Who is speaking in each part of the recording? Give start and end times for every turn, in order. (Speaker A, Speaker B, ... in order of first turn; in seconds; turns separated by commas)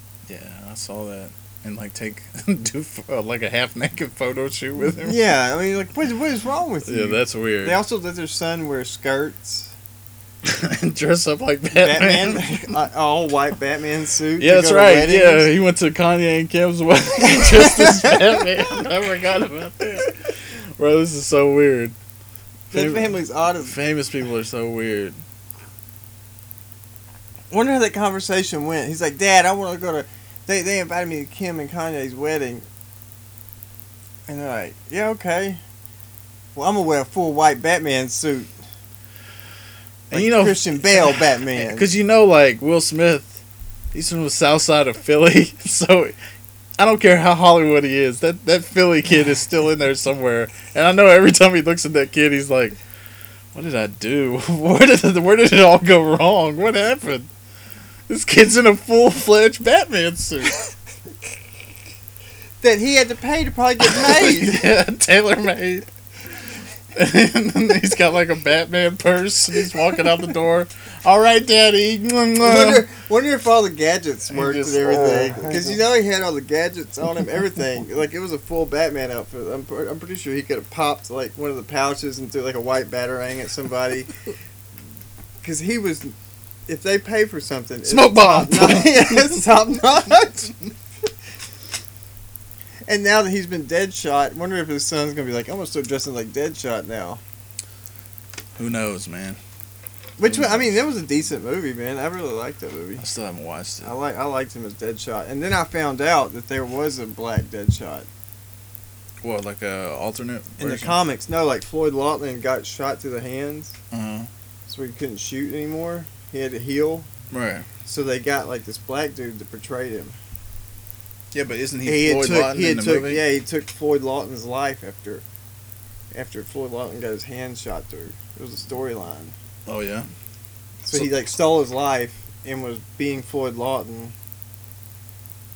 Speaker A: 0.3-5.2, Speaker B: 5.0-9.7, Speaker A: 6.8-7.8, Speaker A: 10.4-12.7, Speaker B: 11.7-15.5, Speaker A: 14.4-21.9, Speaker B: 17.4-18.2, Speaker B: 22.7-23.8, Speaker A: 22.7-25.2, Speaker B: 27.5-32.6, Speaker B: 34.3-35.6, Speaker B: 36.5-38.5, Speaker B: 40.1-41.9, Speaker A: 40.1-43.4, Speaker A: 43.9-46.1, Speaker A: 46.8-52.8, Speaker A: 53.5-57.3, Speaker A: 58.1-60.6, Speaker B: 62.6-64.7, Speaker A: 63.8-65.9, Speaker A: 66.9-72.8, Speaker B: 72.4-84.1, Speaker A: 74.3-75.8, Speaker B: 85.4-86.1, Speaker B: 86.7-90.5, Speaker A: 87.8-89.6, Speaker B: 92.9-97.2, Speaker A: 98.5-99.4, Speaker B: 100.2-103.0, Speaker A: 100.2-100.8, Speaker A: 103.0-103.9, Speaker B: 103.8-108.1, Speaker A: 109.2-111.0, Speaker B: 110.6-113.8, Speaker A: 113.9-114.3, Speaker B: 114.7-117.1, Speaker A: 117.3-117.7, Speaker B: 117.8-120.2, Speaker A: 121.3-123.2, Speaker B: 121.8-125.2, Speaker B: 126.1-129.3, Speaker A: 129.7-130.1, Speaker B: 130.8-134.1, Speaker A: 130.9-131.2